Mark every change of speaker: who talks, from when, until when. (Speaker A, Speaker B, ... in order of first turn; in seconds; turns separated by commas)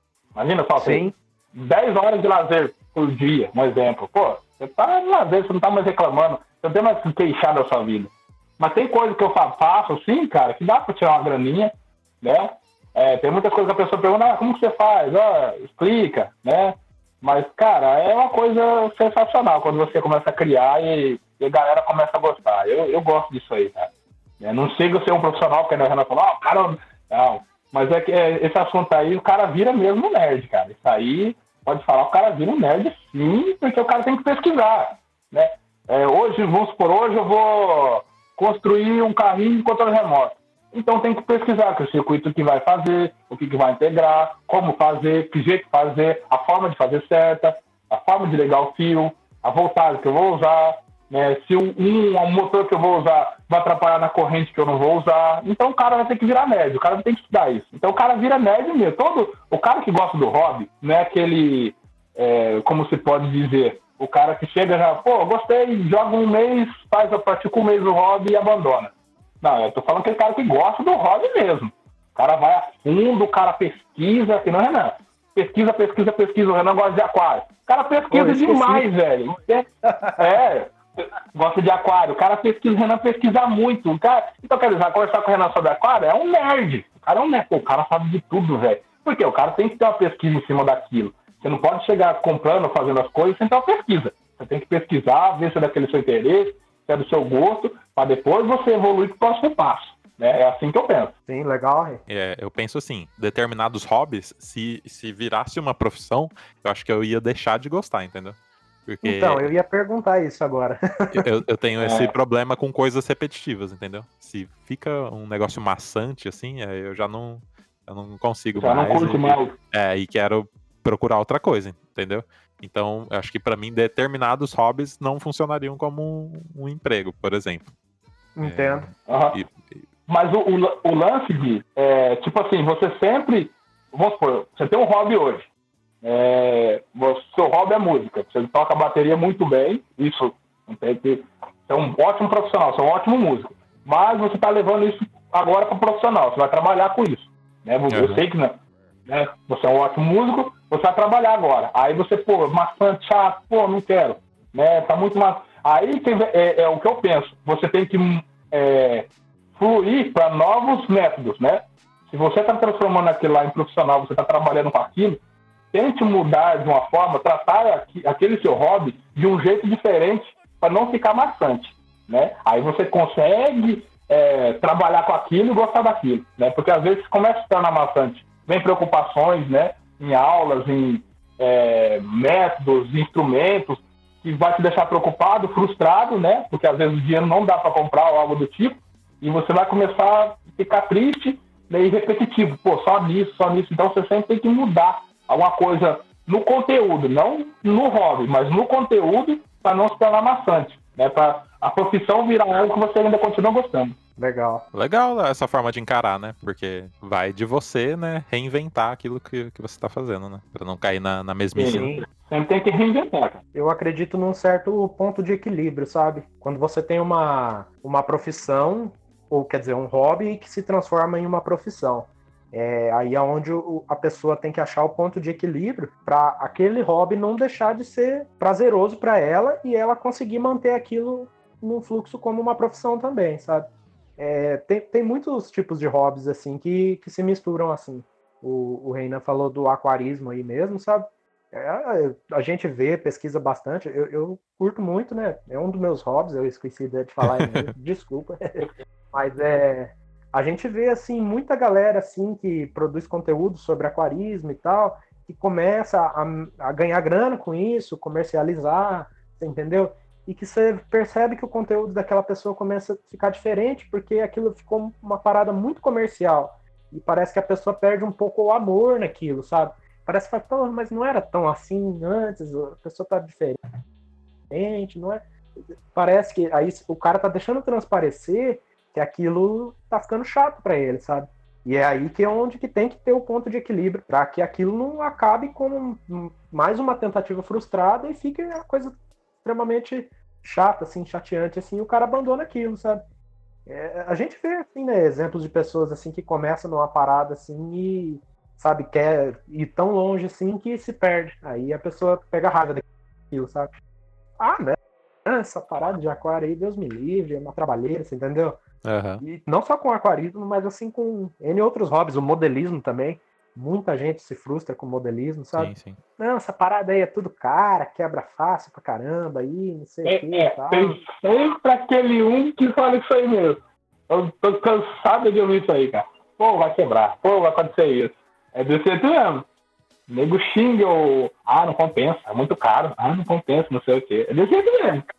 Speaker A: 0.3-101.1, Speaker B: 0.8-1.1, Speaker B: 78.1-78.8, Speaker B: 101.3-102.0, Speaker C: 102.1-109.5, Speaker B: 109.0-111.2, Speaker C: 111.1-127.7, Speaker A: 111.8-112.1, Speaker A: 118.5-119.5, Speaker B: 128.3-128.9, Speaker C: 128.4-129.8, Speaker A: 129.1-129.4, Speaker A: 130.1-135.5, Speaker A: 136.0-165.2, Speaker C: 147.9-148.2, Speaker A: 165.7-203.9, Speaker B: 204.2-204.7, Speaker C: 204.7-211.9, Speaker A: 211.5-213.4, Speaker B: 211.6-212.0, Speaker B: 213.5-273.6, Speaker C: 247.2-247.7, Speaker B: 274.5-275.2, Speaker B: 275.9-293.0, Speaker B: 293.7-303.7, Speaker B: 304.4-308.6, Speaker C: 308.8-309.2, Speaker B: 309.2-321.0, Speaker C: 315.5-316.0, Speaker A: 320.0-329.5, Speaker A: 330.1-335.1